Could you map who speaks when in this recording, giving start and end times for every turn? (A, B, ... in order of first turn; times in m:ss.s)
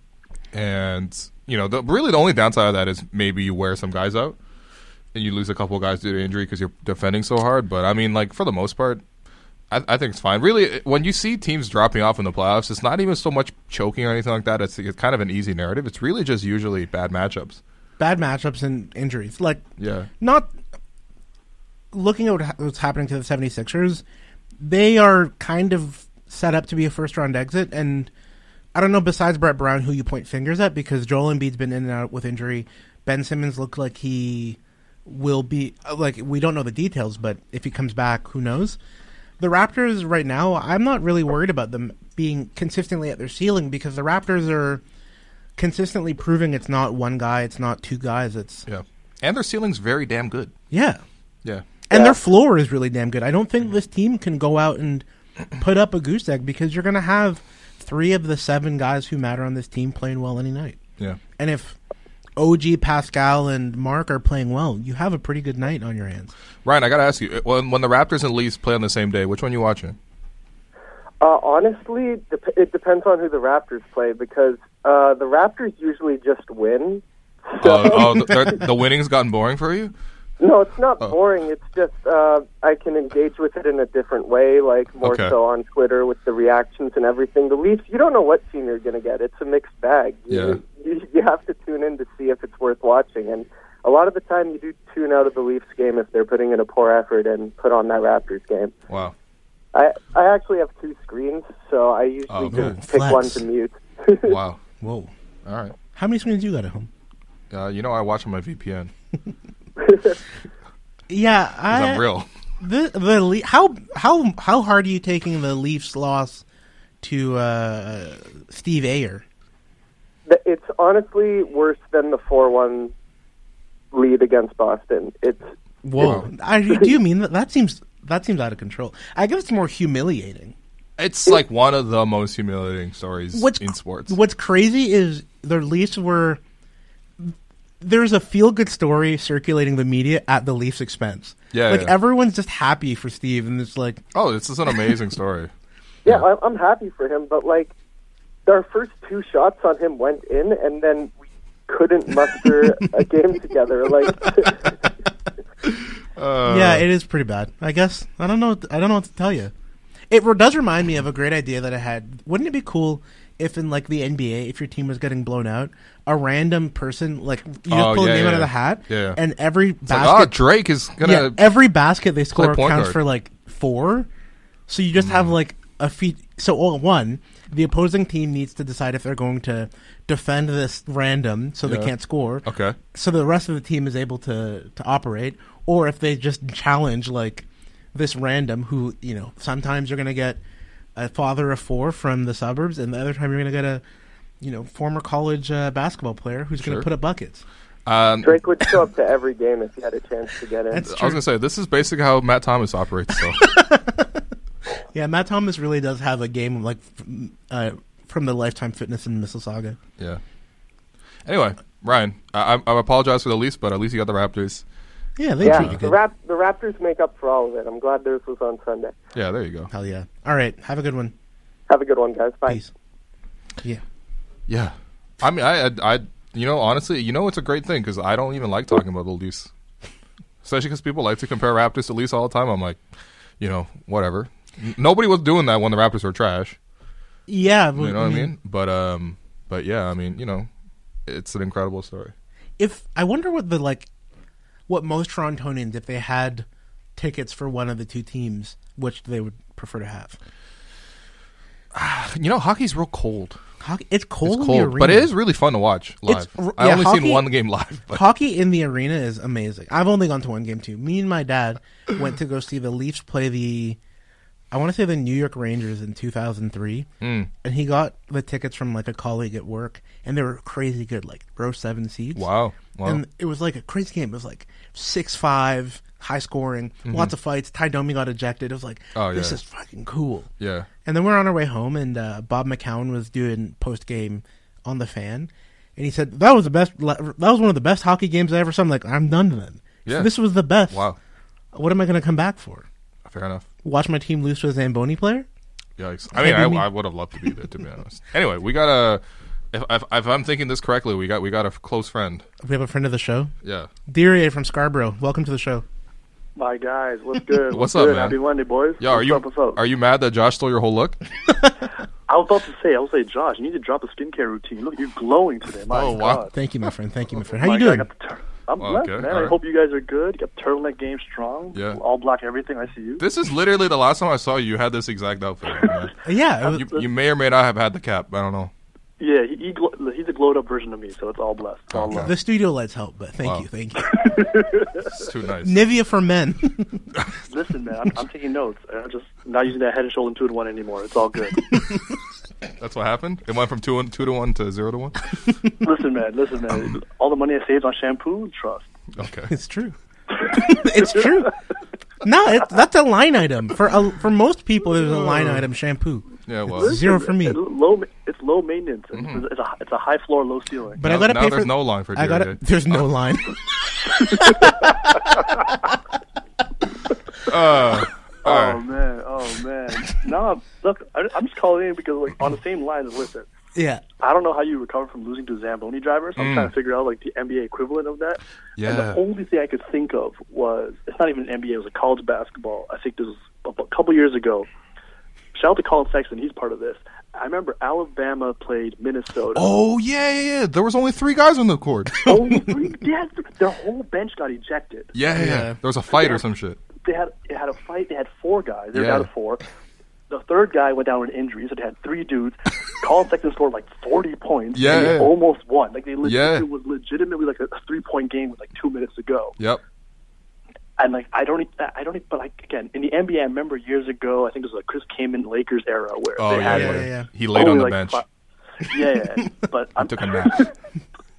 0:00.5-0:04.4 A
0:05.1-0:09.0 A
0:09.7-0:17.6 A
0:18.0-0:19.7 B
0:19.8-0:20.1 A
0:20.2-0:20.5 B
0:21.9-0:24.0 B
0:24.6-0:28.1 B
0:28.7-0:38.8 B
0:39.4-0:44.8 B
0:45.6-0:48.7 B
0:48.7-0:50.5 A
0:50.7-0:51.0 B
0:51.9-0:55.0 B
0:51.9-0:52.2 C
0:55.6-1:00.8 B
1:01.4-1:01.8 B
1:02.4-1:06.3 B
1:06.6-1:10.0 A
1:11.2-1:17.0 C
1:17.5-1:18.5 C
1:17.6-1:19.9 A
1:20.4-1:38.7 C
1:25.0-1:25.4 A
1:30.3-1:30.6 A
1:38.9-1:39.1 A
1:39.7-1:44.4 C
1:42.3-1:42.8 A
1:42.5-1:43.4 B
1:44.2-1:44.6 A
1:44.8-1:45.1 B
1:45.5-1:45.8 A
1:45.9-1:46.9 B
1:47.5-1:48.9 A
1:51.1-1:52.1 B
1:51.7-1:52.3 A
1:52.6-1:56.4 B
1:57.0-1:59.2 B
2:00.3-2:02.9 C
2:03.9-2:05.5 C
2:05.8-2:10.6 B
2:06.0-2:06.3 A
2:11.0-2:14.2 A
2:13.3-2:16.4 B
2:17.2-2:24.0 B
2:21.5-2:22.0 A
2:24.1-2:25.5 A
2:26.0-2:27.7 C
2:28.5-2:31.2 C
2:31.7-2:34.6 C
2:36.2-2:36.9 A
2:36.4-2:39.5 B
2:40.1-2:54.1 B
2:47.7-2:49.2 A
2:49.8-2:51.5 A
2:52.3-2:53.0 A
2:54.7-3:10.4 B
2:55.0-2:55.3 A
3:01.7-3:01.9 A
3:02.4-3:02.8 A
3:11.0-3:13.8 B
3:14.4-3:17.4 B
3:16.6-3:16.9 A
3:17.9-3:18.4 A
3:18.2-3:20.8 C
3:20.7-3:21.2 B
3:20.8-3:23.4 A
3:23.4-3:24.2 B
3:24.9-3:29.8 B
3:31.3-3:34.6 A
3:35.2-3:36.0 B
3:35.4-3:35.8 A
3:35.4-3:38.9 C
3:39.2-3:39.7 A
3:39.7-3:41.1 B
3:41.7-3:42.6 C
3:44.5-3:49.5 A
3:50.4-3:52.8 A
3:53.4-3:56.6 A
3:57.3-3:58.3 B
3:57.8-4:00.5 A
4:01.1-4:02.1 A
4:02.6-4:03.9 B
4:04.7-4:10.2 B
4:11.7-4:13.4 A
4:13.6-4:15.1 B
4:14.2-4:18.0 A
4:16.1-4:17.3 B
4:17.9-4:23.8 B
4:24.5-4:26.9 B
4:27.0-4:27.3 A
4:27.4-4:32.3 B
4:32.2-4:33.0 A
4:32.8-4:40.3 B
4:36.8-4:37.1 A
4:39.0-4:39.4 A
4:40.4-4:40.7 A
4:40.8-4:50.9 B
4:49.8-4:50.2 A
4:50.7-4:51.0 A
4:51.5-4:52.7 B
4:53.1-4:53.5 A
4:53.6-4:55.3 B
4:55.8-5:02.2 A
4:56.1-4:56.7 B
5:02.4-5:03.3 B
5:03.4-5:03.7 A
5:03.9-5:05.6 B
5:06.4-5:09.6 D
5:07.5-5:08.2 A
5:08.8-5:11.0 A
5:12.1-5:16.3 D
5:15.7-5:16.3 A
5:16.3-5:17.9 B
5:17.3-5:23.1 D
5:18.6-5:19.4 A
5:21.5-5:21.8 A
5:23.0-5:25.9 A
5:25.5-5:25.8 D
5:26.0-5:26.7 B
5:26.5-5:28.5 A
5:29.0-5:32.1 D
5:31.7-5:32.1 A
5:32.0-5:34.1 B
5:34.0-5:34.8 D
5:35.0-5:35.6 A
5:35.4-5:36.8 B
5:37.3-5:41.5 D
5:42.6-5:45.0 A
5:45.6-5:48.7 D
5:48.9-5:49.3 A
5:49.3-5:49.8 B
5:50.1-5:51.3 D
5:50.3-5:51.3 B
5:52.0-5:57.4 B
5:54.9-5:55.4 A
5:56.3-5:56.8 A
5:56.6-6:00.8 D
5:58.9-5:59.3 A
6:00.8-6:03.4 B
6:00.8-6:02.8 A
6:04.0-6:04.7 B
6:07.2-6:08.6 A
6:08.2-6:13.3 D
6:13.6-6:13.8 B
6:14.0-6:24.5 D
6:16.2-6:16.5 A
6:18.6-6:19.0 A
6:25.3-6:29.5 D
6:29.3-6:32.2 A
6:32.0-6:35.0 D
6:34.9-6:36.6 A
6:35.1-6:35.6 B
6:35.9-6:36.2 D
6:36.8-6:39.4 D
6:38.7-6:39.1 A
6:40.1-6:49.4 D
6:44.5-6:45.2 A
6:46.0-6:46.5 A
6:50.8-6:58.0 D
6:56.2-6:58.0 A
6:56.5-6:57.1 B
6:58.6-7:00.5 D
6:59.8-7:00.4 A